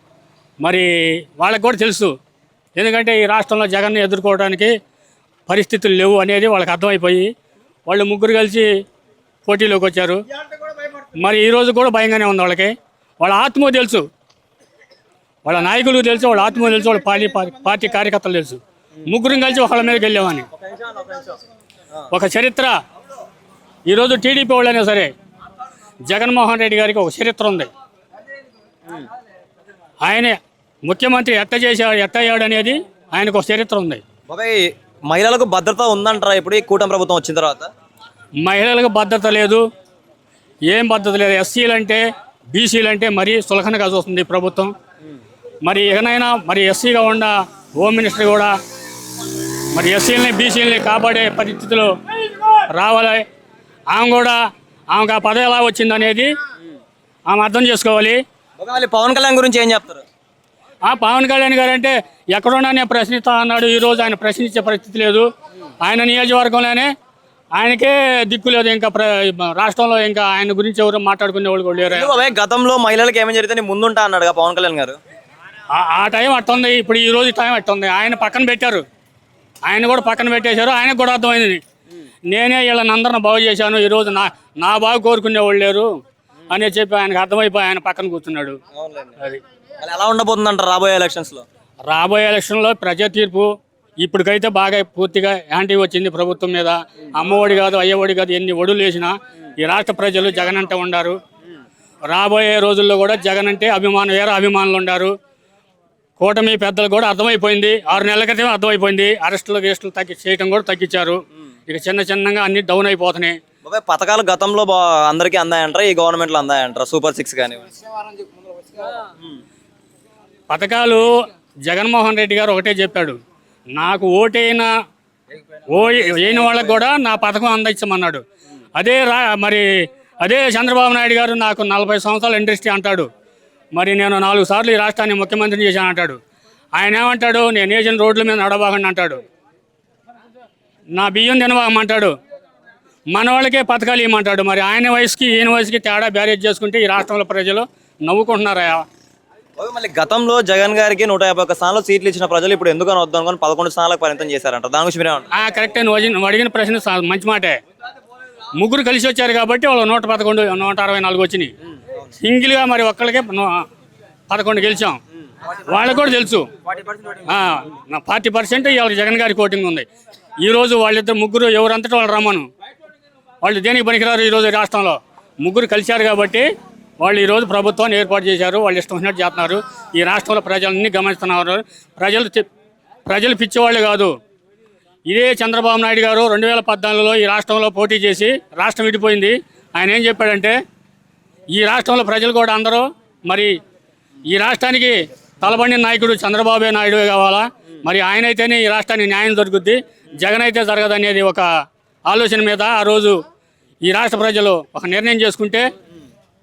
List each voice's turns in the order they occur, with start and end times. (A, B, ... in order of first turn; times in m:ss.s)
0:00.6-0:02.1 A
0:02.8-0:04.7 A
0:05.5-0:07.3 A
0:07.9-0:08.7 A
0:09.5-0:10.2 A
0:11.2-0:14.0 A
0:15.4-0:20.5 A
0:20.5-0:21.4 B
0:22.1-0:22.8 A
0:23.9-0:25.1 A
0:26.1-0:27.7 A
0:30.0-0:34.0 A
0:34.3-0:37.7 B
0:38.4-0:39.6 A
0:40.7-0:44.7 A
0:45.6-0:48.6 A
0:49.7-0:53.2 A
0:53.9-0:54.4 A
0:54.9-0:56.3 A
0:57.3-0:58.2 A
0:58.6-1:00.0 B
1:00.8-1:05.3 A
1:05.8-1:06.9 A
1:07.6-1:12.1 A
1:11.9-1:15.0 B
1:15.7-1:18.8 A
1:19.7-1:21.6 A
1:22.3-1:25.9 A
1:26.5-1:28.6 A
1:28.7-1:29.1 B
1:29.8-1:31.4 B
1:31.9-1:33.5 A
1:34.0-1:41.2 A
1:42.1-1:45.1 A
1:46.2-1:53.4 A
1:53.6-1:57.7 B
2:00.5-2:01.1 A
2:01.7-2:03.2 A
2:03.7-2:04.7 A
2:05.7-2:08.2 A
2:08.8-2:13.1 A
2:13.7-2:16.2 A
2:16.7-2:19.2 A
2:20.9-2:22.1 A
2:23.1-2:28.8 A
2:29.6-2:35.3 B
2:35.3-2:37.6 A
2:38.6-2:41.5 A
2:42.2-2:43.7 A
2:44.3-2:45.0 A
2:45.6-2:46.5 A
2:46.7-2:47.2 B
2:47.2-2:49.9 A
2:50.4-2:52.5 A
2:53.4-2:56.5 A
2:57.0-3:02.5 A
3:03.1-3:04.1 A
3:05.1-3:10.6 A
3:11.5-3:13.6 A
3:14.3-3:21.5 A
3:22.0-3:23.2 A
3:23.8-3:25.7 A